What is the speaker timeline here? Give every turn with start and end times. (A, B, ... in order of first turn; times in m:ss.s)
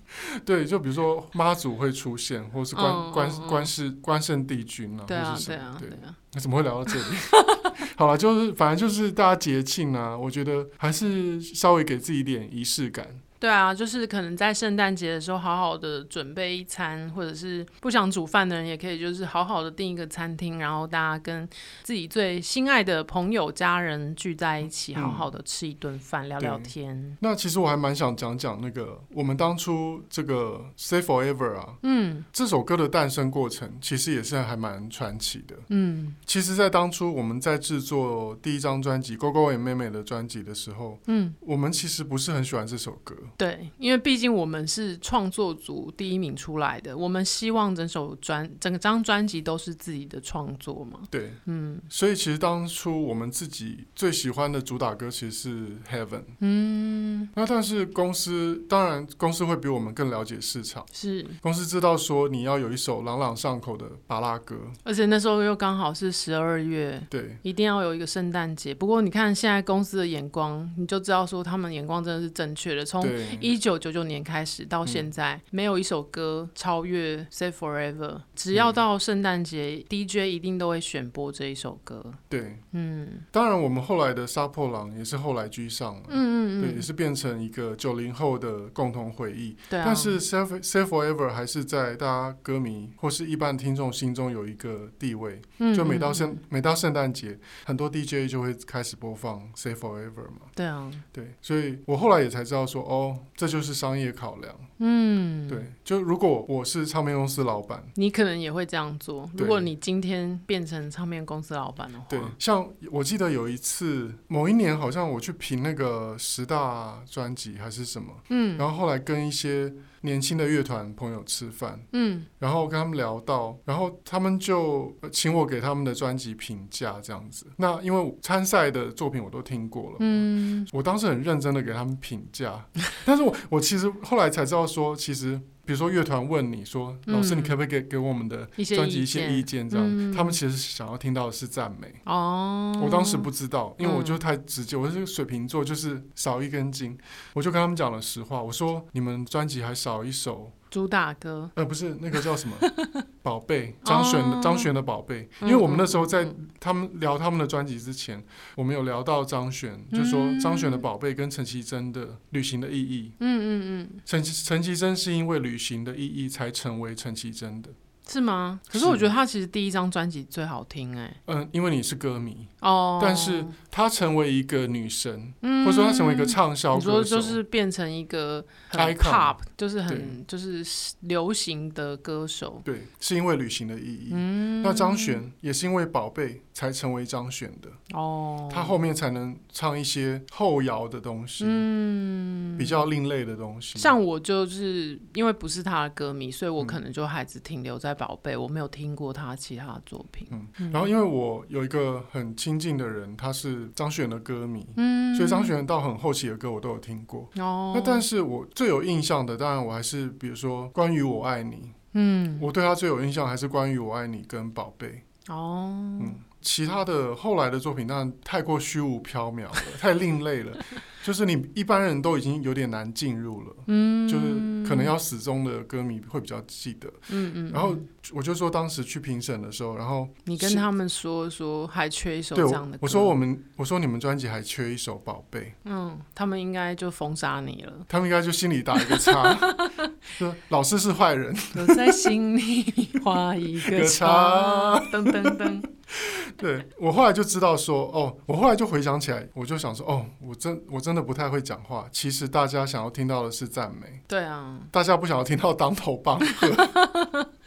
0:00.1-0:13.2 A
0:02.7-0:03.7 B
0:05.1-0:06.2 B
0:06.9-0:07.8 B
0:13.4-0:27.2 B
0:25.0-0:25.3 A
0:26.4-0:31.8 A
0:31.8-0:32.3 B
0:32.3-0:35.7 A
0:35.7-0:36.2 B
0:36.3-0:43.3 A
0:41.1-0:41.4 B
0:43.4-0:51.9 B
0:51.1-0:56.4 A
0:56.4-0:57.3 B
0:57.4-1:00.9 A
1:00.9-1:01.4 B
1:01.4-1:04.8 A
1:04.8-1:22.2 B
1:07.1-1:07.4 A
1:13.0-1:13.5 A
1:18.5-1:18.8 A
1:22.3-1:22.6 A
1:22.7-1:23.3 B
1:23.3-1:40.5 A
1:26.1-1:26.9 B
1:29.7-1:30.2 B
1:35.6-1:36.4 B
1:40.6-1:41.0 B
1:41.1-1:44.7 A
1:44.8-1:45.7 B
1:45.5-1:47.9 A
1:48.0-1:52.4 B
1:49.4-1:49.7 A
1:52.1-2:01.9 A
1:58.3-1:58.7 B
2:01.9-2:02.3 B
2:02.4-2:22.0 A
2:10.0-2:10.7 B
2:17.1-2:17.6 B
2:18.6-2:20.4 B
2:22.0-2:23.3 B
2:22.8-2:30.6 A
2:23.8-2:24.2 B
2:30.7-2:31.5 B
2:31.6-2:32.7 A
2:32.2-2:33.0 B
2:33.2-2:43.2 A
2:33.8-2:34.7 B
2:35.4-2:36.4 B
2:39.9-2:40.8 B
2:43.2-2:44.0 B
2:44.1-2:47.8 A
2:48.1-2:51.2 B
2:48.7-2:49.1 A
2:51.3-2:57.4 A
2:52.6-2:53.5 B
2:55.4-3:02.6 B
2:58.7-2:59.4 A
2:59.9-3:00.2 A
3:02.6-3:07.8 A
3:04.1-3:05.2 B
3:07.9-3:08.8 B
3:08.5-3:11.7 A
3:11.4-3:12.8 B
3:12.6-3:14.0 A
3:13.8-3:20.9 B
3:20.3-3:31.8 A
3:24.8-3:25.6 B
3:27.4-3:28.1 B
3:31.9-3:32.5 B
3:32.4-3:35.0 A
3:35.3-3:36.2 B
3:36.0-3:50.6 A
3:43.7-3:44.9 B
3:47.1-3:47.9 B
3:50.3-3:53.2 B
3:52.3-3:55.6 A
3:55.6-3:57.9 B
3:57.9-4:02.1 A
3:58.8-3:59.9 B
4:01.5-4:05.7 B
4:03.6-4:14.0 A
4:14.1-4:14.7 B
4:14.7-4:16.8 A
4:16.3-4:17.3 B